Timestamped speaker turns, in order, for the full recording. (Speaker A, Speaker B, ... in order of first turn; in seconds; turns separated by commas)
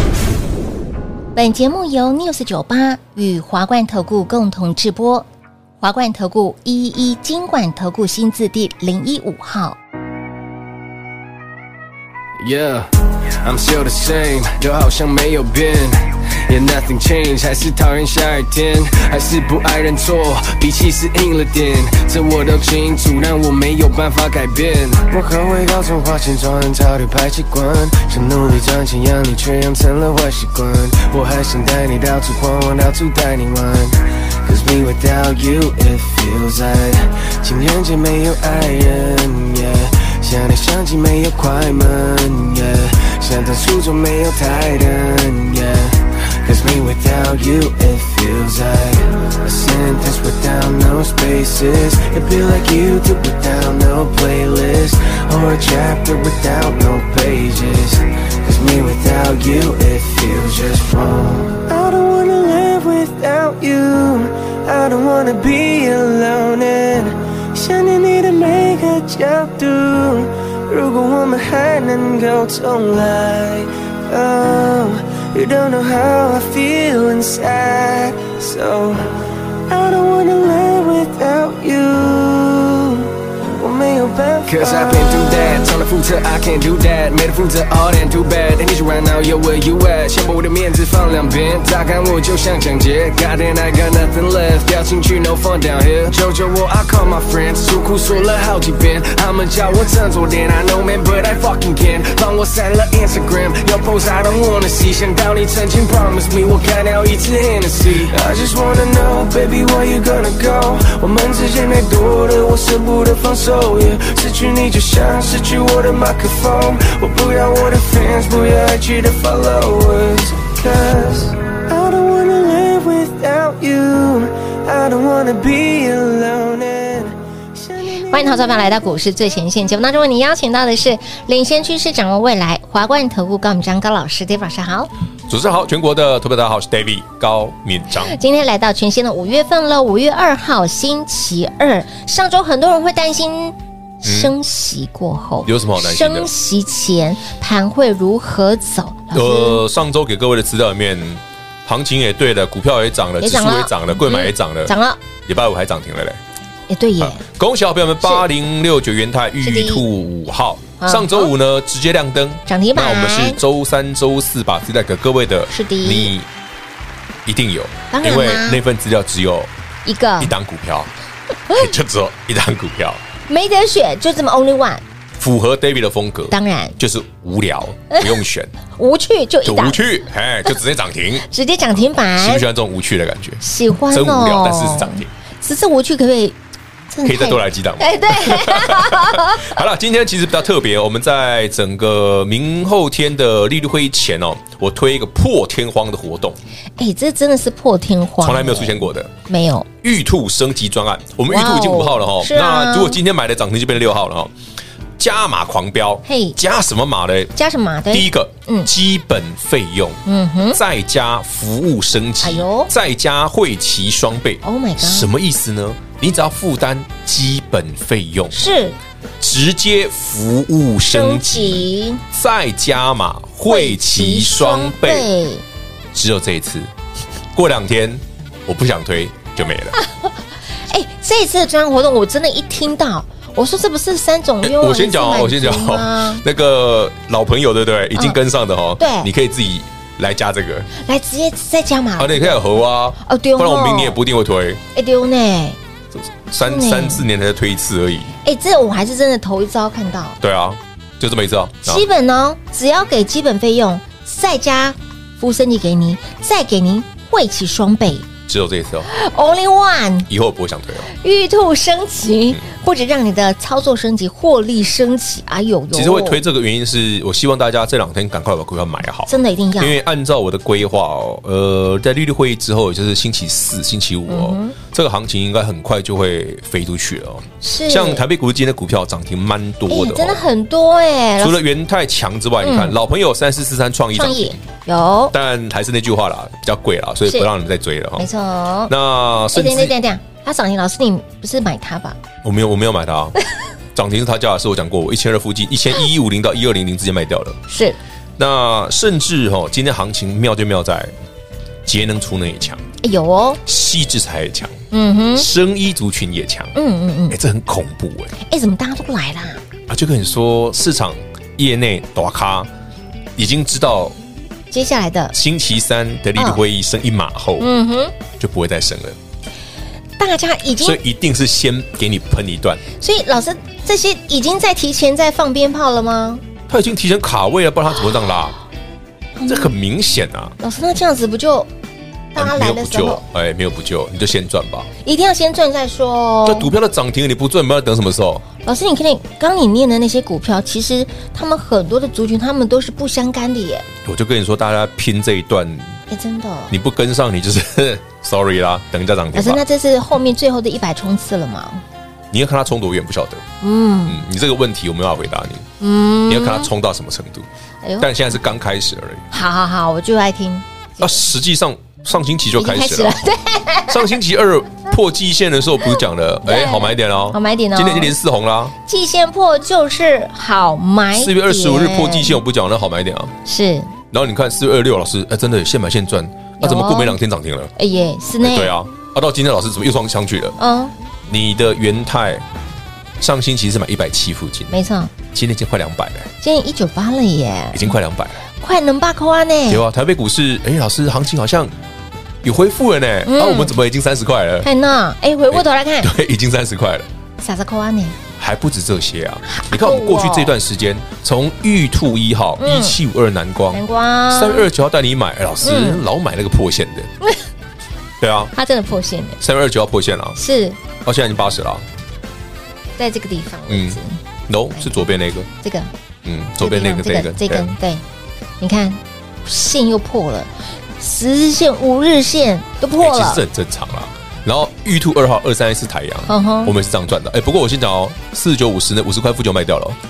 Speaker A: 1.4-5.3, Speaker A: 5.8-9.8, Speaker B: 12.4-12.9, Speaker B: 13.4-79.2, Speaker B: 79.7-128.6, Speaker A: 128.1-134.9, Speaker C: 135.3-138.2, Speaker A: 137.9-149.6, Speaker C: 144.0-144.3, Speaker C: 145.4-146.3, Speaker C: 149.1-154.7, Speaker A: 153.2-155.0, Speaker C: 155.3-156.2, Speaker A: 156.7-157.2, Speaker C: 157.0-166.3, Speaker A: 159.4-159.8, Speaker A: 160.8-161.3, Speaker A: 162.5-163.4, Speaker A: 165.5-166.1, Speaker C: 167.3-169.5, Speaker A: 167.9-168.6, Speaker A: 169.8-170.3, Speaker C: 170.2-170.9, Speaker C: 171.5-173.0, Speaker A: 173.3-174.8, Speaker C: 175.2-178.5, Speaker A: 176.3-176.8, Speaker A: 178.8-179.8, Speaker C: 179.4-181.3, Speaker A: 181.3-182.4, Speaker C: 182.2-185.1, Speaker A: 183.4-186.4, Speaker A: 186.9-189.6, Speaker C: 187.0-196.4, Speaker A: 196.8-199.7, Speaker C: 198.2-199.1, Speaker C: 199.8-204.3, Speaker A: 201.3-203.0, Speaker C: 205.0-207.3, Speaker A: 206.1-206.4, Speaker A: 207.4-208.7, Speaker C: 207.9-210.0, Speaker A: 210.1-210.6, Speaker C: 210.5-218.4, Speaker A: 212.2-212.7, Speaker A: 214.4-215.1, Speaker A: 218.3-218.8, Speaker C: 219.2-225.1, Speaker A: 220.9-222.0, Speaker A: 223.5-225.4, Speaker C: 225.9-226.7, Speaker C: 227.3-229.8, Speaker A: 230.7-236.2, Speaker C: 234.4-240.7, Speaker A: 238.8-239.1, Speaker A: 240.8-242.4, Speaker C: 242.0-244.6, Speaker A: 243.0-244.0, Speaker A: 244.8-245.6, Speaker C: 245.9-248.1, Speaker A: 246.4-247.1, Speaker A: 248.2-250.2, Speaker C: 250.2-251.9, Speaker A: 251.7-258.1, Speaker C: 258.3-258.9, Speaker A: 258.9-260.1, Speaker C: 260.1-260.9, Speaker A: 260.9-266.2, Speaker C: 265.7-280.3, Speaker A: 269.1-269.8, Speaker A: 274.1-274.6, Speaker A: 277.4-278.1, Speaker A: 279.7-281.4, Speaker C: 281.2-284.4, Speaker A: 282.4-282.8, Speaker A: 283.9-285.1, Speaker C: 285.1-288.1, Speaker A: 288.0-288.7, Speaker C: 288.7-289.8, Speaker A: 289.3-292.0, Speaker C: 292.2-293.2, Speaker C: 293.7-297.4, Speaker A: 297.5-297.8, Speaker C: 298.2-300.9, Speaker C: 301.6-302.6, Speaker A: 302.8-303.4, Speaker C: 303.5-304.6, Speaker A: 304.7-305.3, Speaker C: 305.1-306.6, Speaker A: 306.6-307.2, Speaker C: 307.1-308.1, Speaker A: 308.2-309.4, Speaker C: 309.7-312.5, Speaker C: 313.2-313.9, Speaker A: 314.5-315.1, Speaker C: 315.1-317.5, Speaker A: 317.4-317.9, Speaker C: 318.2-319.0, Speaker A: 320.0-320.8, Speaker C: 320.6-322.6, Speaker A: 322.8-326.2, Speaker C: 326.5-328.4, Speaker A: 329.2-329.5, Speaker C: 329.3-330.4, Speaker A: 330.4-331.5, Speaker A: 332.1-333.0, Speaker C: 332.2-334.7, Speaker A: 334.8-336.5, Speaker C: 336.2-338.2, Speaker A: 338.4-343.7, Speaker C: 343.9-345.8, Speaker A: 345.9-346.5, Speaker C: 346.5-349.4, Speaker A: 349.1-351.6, Speaker C: 352.1-353.2, Speaker A: 353.4-354.0, Speaker C: 353.9-355.5, Speaker A: 355.6-356.5, Speaker C: 356.1-357.3, Speaker A: 357.6-357.9, Speaker C: 357.8-359.1, Speaker A: 359.1-361.0, Speaker C: 360.8-363.0, Speaker A: 362.4-364.0, Speaker C: 363.7-368.5, Speaker A: 366.2-367.9, Speaker A: 368.6-372.2, Speaker C: 370.9-373.1, Speaker A: 373.2-373.7, Speaker C: 373.9-377.5, Speaker A: 376.4-377.0, Speaker A: 377.6-378.5, Speaker C: 378.2-380.4, Speaker A: 380.4-380.7, Speaker C: 381.1-382.2, Speaker C: 383.0-384.5, Speaker A: 384.5-384.9, Speaker C: 385.1-386.1, Speaker A: 386.2-387.7, Speaker C: 387.5-388.2, Speaker A: 388.3-389.6, Speaker C: 389.5-391.5, Speaker C: 392.2-394.5, Speaker A: 393.1-393.6, Speaker A: 394.4-395.9, Speaker C: 395.3-396.9, Speaker A: 397.2-398.0, Speaker C: 398.2-406.9, Speaker A: 399.3-400.3, Speaker A: 402.4-402.8, Speaker A: 403.5-404.5, Speaker A: 405.4-405.8, Speaker C: 408.0-408.3, Speaker A: 408.4-409.2, Speaker C: 409.2-410.2, Speaker A: 410.2-410.6, Speaker C: 410.9-411.6, Speaker A: 412.8-414.0, Speaker C: 413.5-415.3, Speaker A: 415.4-415.7, Speaker C: 416.1-417.6, Speaker A: 416.4-417.8, Speaker A: 418.4-423.2, Speaker C: 422.8-429.8, Speaker A: 426.1-426.5